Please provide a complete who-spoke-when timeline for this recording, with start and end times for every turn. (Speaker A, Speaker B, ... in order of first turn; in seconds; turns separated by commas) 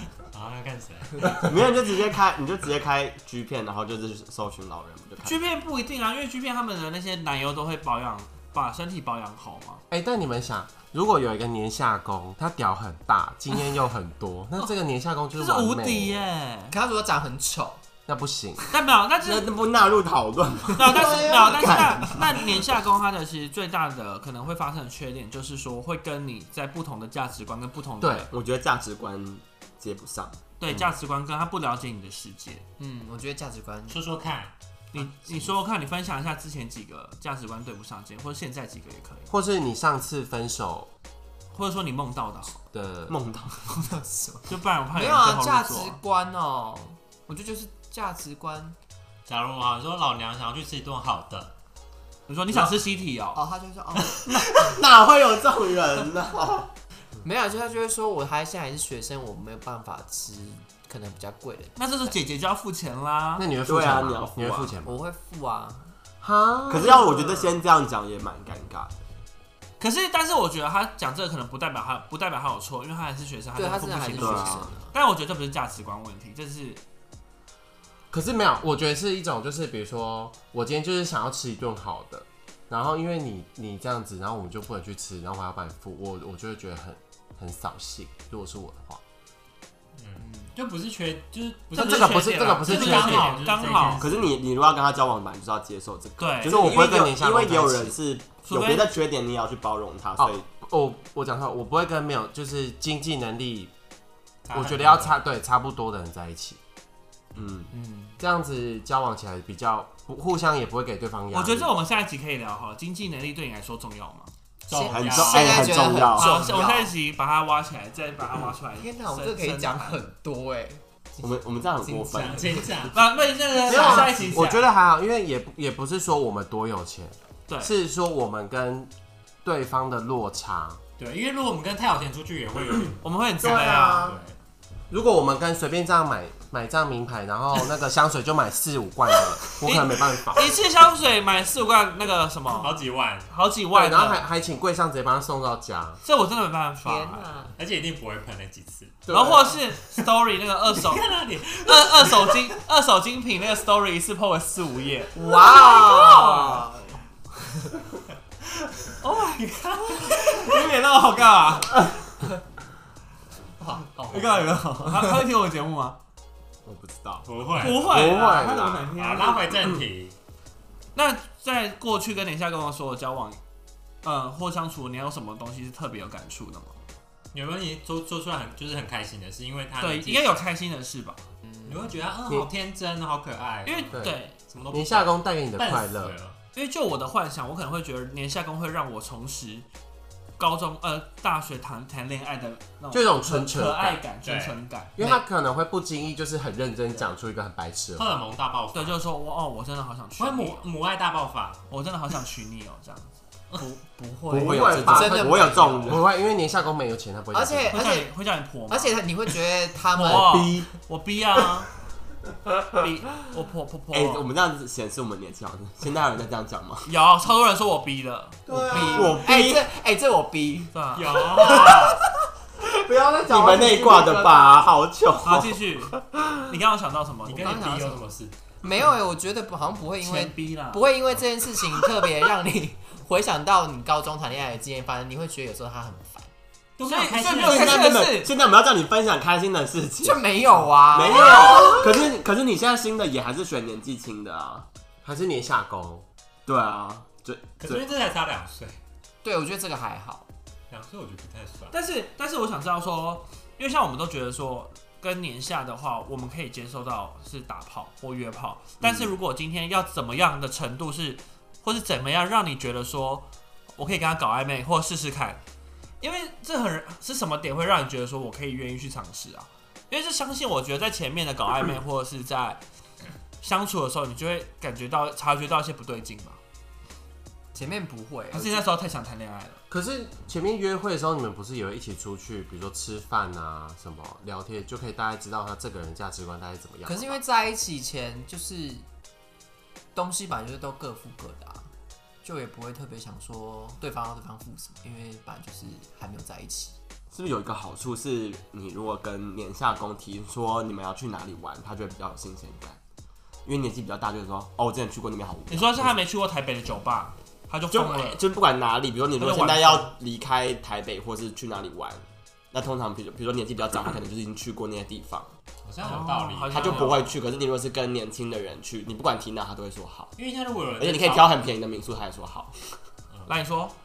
Speaker A: 0.3-1.4, Speaker B: 1.4-5.5, Speaker C: 5.2-9.8, Speaker D: 9.9-16.3, Speaker C: 15.3-16.8, Speaker E: 16.7-17.8, Speaker D: 18.1-18.6, Speaker C: 18.7-19.5, Speaker B: 19.2-22.6, Speaker C: 20.8-28.3, Speaker E: 21.0-22.1, Speaker D: 28.0-28.3, Speaker B: 28.3-30.4, Speaker C: 30.6-32.6, Speaker E: 32.8-34.0, Speaker A: 33.9-34.5, Speaker C: 34.9-39.3, Speaker E: 35.0-35.5, Speaker D: 39.3-40.9, Speaker C: 41.5-42.6, Speaker D: 42.7-43.1, Speaker B: 43.1-43.6, Speaker E: 43.7-48.8, Speaker C: 44.5-46.0, Speaker A: 49.3-51.5, Speaker C: 52.3-53.4, Speaker E: 53.4-54.2, Speaker B: 54.2-56.7, Speaker E: 57.2-62.2, Speaker C: 61.8-63.5, Speaker D: 63.4-65.0, Speaker B: 63.6-64.8, Speaker E: 64.8-65.9, Speaker D: 66.2-67.1, Speaker B: 66.7-69.0, Speaker E: 66.8-67.6, Speaker C: 69.8-76.8, Speaker E: 73.5-74.9, Speaker B: 74.2-74.7, Speaker D: 78.1-89.0, Speaker A: 90.0-94.4, Speaker C: 91.7-94.1, Speaker D: 91.8-93.5, Speaker B: 94.0-100.4, Speaker C: 96.2-96.8, Speaker D: 96.4-98.0, Speaker C: 98.4-98.9, Speaker D: 100.2-103.7, Speaker A: 104.5-105.2, Speaker D: 104.5-106.6, Speaker B: 107.3-107.7, Speaker E: 107.7-108.2, Speaker D: 108.2-111.7, Speaker C: 111.3-114.3, Speaker A: 114.7-115.7, Speaker E: 114.7-116.9, Speaker B: 114.8-116.4, Speaker C: 115.3-120.0, Speaker E: 118.8-122.8, Speaker B: 121.2-122.7, Speaker A: 122.1-123.0, Speaker C: 122.9-124.7, Speaker D: 123.7-128.9, Speaker C: 127.5-127.7, Speaker D: 129.4-130.8, Speaker A: 131.0-133.0, Speaker C: 133.0-134.2, Speaker D: 133.4-134.2, Speaker A: 133.6-134.4, Speaker D: 134.9-140.6, Speaker C: 139.5-144.2, Speaker A: 142.5-143.3, Speaker D: 143.7-146.0, Speaker C: 146.0-147.3, Speaker E: 146.8-147.6, Speaker A: 147.6-149.1, Speaker D: 149.1-149.6, Speaker C: 149.1-156.7, Speaker A: 150.7-152.6, Speaker E: 155.1-157.0, Speaker C: 159.0-161.9, Speaker A: 159.3-160.4, Speaker E: 163.6-164.7, Speaker B: 164.1-165.1, Speaker C: 164.2-166.0, Speaker B: 166.7-167.3, Speaker A: 167.3-168.2, Speaker C: 167.6-169.7, Speaker D: 167.8-168.9, Speaker A: 169.0-170.2, Speaker C: 170.9-173.4, Speaker C: 174.0-176.8, Speaker A: 177.3-180.4, Speaker C: 179.8-181.2, Speaker A: 181.7-186.4, Speaker C: 183.7-184.4, Speaker D: 183.9-184.2, Speaker D: 184.7-186.2, Speaker C: 186.5-189.7, Speaker C: 190.4-195.1, Speaker D: 192.9-194.0, Speaker A: 194.2-194.6, Speaker D: 195.0-198.1, Speaker A: 198.0-199.0, Speaker C: 198.7-200.7, Speaker A: 200.2-201.7, Speaker C: 201.7-203.2, Speaker E: 203.6-206.0, Speaker D: 204.3-207.8, Speaker B: 204.3-206.0, Speaker E: 207.3-208.1, Speaker C: 207.7-209.0, Speaker E: 208.7-210.5, Speaker C: 210.0-211.7, Speaker B: 210.0-210.8, Speaker C: 212.7-214.3, Speaker B: 213.9-216.9, Speaker C: 216.9-219.1, Speaker B: 218.5-219.7, Speaker E: 218.7-220.8, Speaker C: 220.7-221.8, Speaker A: 220.9-222.0, Speaker E: 221.3-221.9, Speaker B: 222.6-226.3, Speaker E: 223.3-224.6, Speaker C: 225.2-227.9, Speaker A: 227.2-228.3, Speaker E: 227.4-228.0, Speaker E: 228.6-236.3, Speaker C: 230.0-230.9, Speaker A: 236.8-237.8, Speaker C: 236.8-238.3, Speaker B: 237.2-240.2, Speaker E: 240.0-241.9, Speaker B: 240.9-244.7, Speaker D: 245.0-246.1, Speaker B: 246.5-247.8, Speaker A: 247.6-248.8, Speaker E: 249.2-250.3, Speaker A: 250.7-251.7, Speaker C: 251.7-265.4, Speaker B: 258.8-259.1, Speaker C: 266.0-272.6, Speaker C: 273.4-276.4, Speaker E: 277.5-278.7, Speaker C: 278.3-279.6, Speaker D: 279.7-287.2, Speaker E: 286.9-288.9, Speaker E: 289.9-291.7, Speaker E: 292.2-296.7, Speaker B: 297.1-302.8, Speaker B: 303.4-306.0, Speaker C: 305.5-308.2, Speaker B: 307.7-315.3, Speaker C: 309.2-309.9, Speaker A: 315.6-317.1, Speaker C: 315.8-317.2, Speaker B: 316.5-320.1, Speaker A: 320.2-321.4, Speaker B: 320.8-322.6, Speaker C: 323.3-323.8